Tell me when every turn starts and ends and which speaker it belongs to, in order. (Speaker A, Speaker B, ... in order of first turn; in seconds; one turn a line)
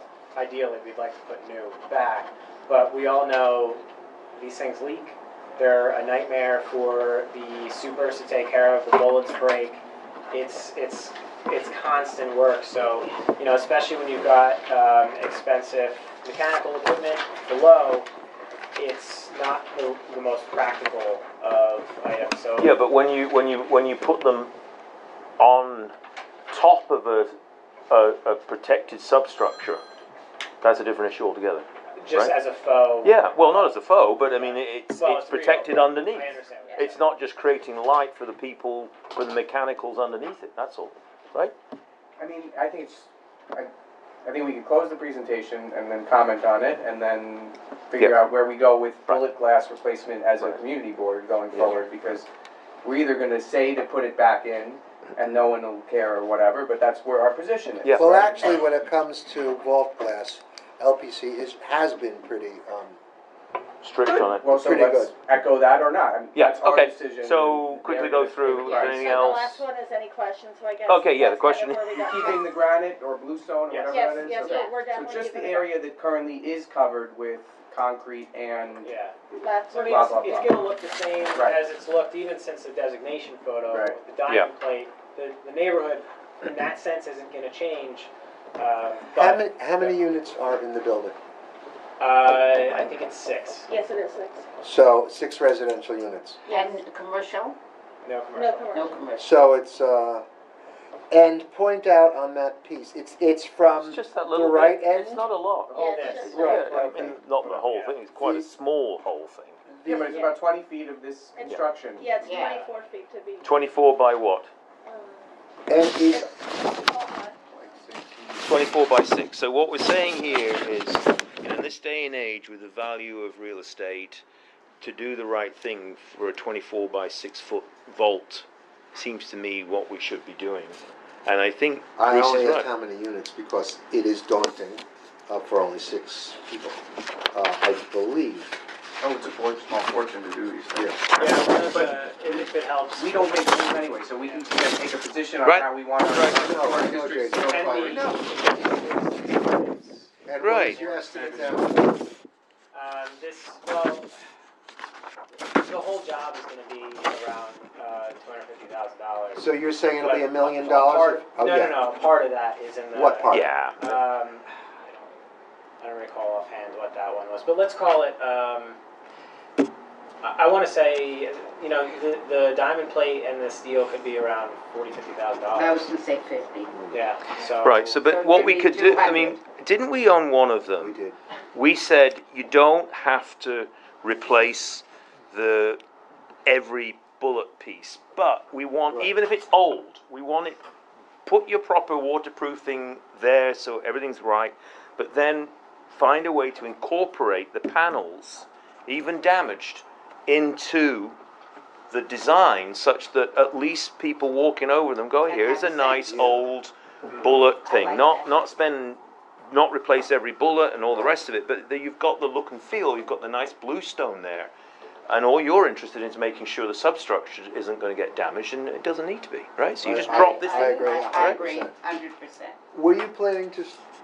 Speaker A: 0.3-18.1
Speaker A: 18.8-22.8
Speaker B: 22.6-24.5
Speaker B: 25.4-25.9
Speaker B: 26.5-27.4
Speaker B: 27.9-29.8
Speaker B: 30.6-32.3
Speaker A: 32.0-37.0
Speaker B: 33.0-41.5
Speaker C: 42.2-43.7
Speaker C: 44.2-52.2
Speaker B: 48.0-48.3
Speaker B: 51.5-51.9
Speaker C: 52.8-58.6
Speaker B: 57.8-58.2
Speaker D: 57.9-63.0
Speaker B: 63.8-64.5
Speaker C: 64.0-69.4
Speaker D: 64.5-65.1
Speaker B: 66.3-69.6
Speaker E: 68.6-72.6
Speaker B: 70.9-72.0
Speaker C: 71.9-78.9
Speaker A: 73.7-74.4
Speaker E: 73.9-75.8
Speaker F: 74.4-74.7
Speaker A: 78.8-79.1
Speaker E: 79.3-80.4
Speaker A: 79.7-90.0
Speaker C: 79.8-80.6
Speaker C: 81.3-81.6
Speaker C: 83.7-84.0
Speaker D: 89.1-91.2
Speaker A: 92.0-93.7
Speaker E: 93.7-94.5
Speaker D: 94.6-96.4
Speaker E: 96.5-96.8
Speaker F: 96.5-97.6
Speaker A: 98.0-98.8
Speaker E: 98.3-99.1
Speaker F: 98.7-99.2
Speaker D: 99.2-100.2
Speaker D: 101.1-105.3
Speaker B: 103.8-109.6
Speaker C: 105.7-108.0
Speaker A: 105.7-108.0
Speaker E: 105.7-106.4
Speaker D: 106.3-107.2
Speaker D: 108.2-108.5
Speaker D: 109.8-110.2
Speaker C: 109.8-112.3
Speaker E: 109.9-110.3
Speaker E: 111.3-113.6
Speaker F: 112.2-112.7
Speaker B: 113.4-114.5
Speaker E: 114.8-115.3
Speaker D: 115.7-116.3
Speaker E: 116.1-117.4
Speaker C: 118.2-118.6
Speaker B: 118.4-124.2
Speaker B: 124.8-132.7
Speaker D: 132.0-136.8
Speaker D: 137.3-138.5
Speaker C: 139.0-140.9
Speaker A: 141.2-143.5
Speaker C: 142.9-148.2
Speaker A: 144.2-144.5
Speaker B: 145.4-146.4
Speaker D: 146.2-148.3
Speaker A: 147.5-151.7
Speaker D: 150.2-152.0
Speaker B: 150.4-150.8
Speaker A: 152.7-154.1
Speaker A: 155.6-165.1
Speaker D: 159.3-162.0
Speaker D: 162.9-164.0
Speaker B: 163.3-163.8
Speaker A: 165.8-168.8
Speaker A: 170.2-175.8
Speaker F: 175.5-176.8
Speaker A: 176.9-178.0
Speaker B: 177.6-181.0
Speaker F: 178.0-179.4
Speaker D: 180.8-181.2
Speaker B: 181.5-185.8
Speaker B: 186.4-190.6
Speaker B: 191.2-201.2
Speaker B: 201.9-209.0
Speaker F: 205.2-206.4
Speaker D: 206.1-206.4
Speaker F: 207.3-208.4
Speaker B: 209.5-214.5
Speaker B: 215.1-221.5
Speaker D: 219.8-221.7
Speaker F: 219.9-222.6
Speaker D: 222.7-223.8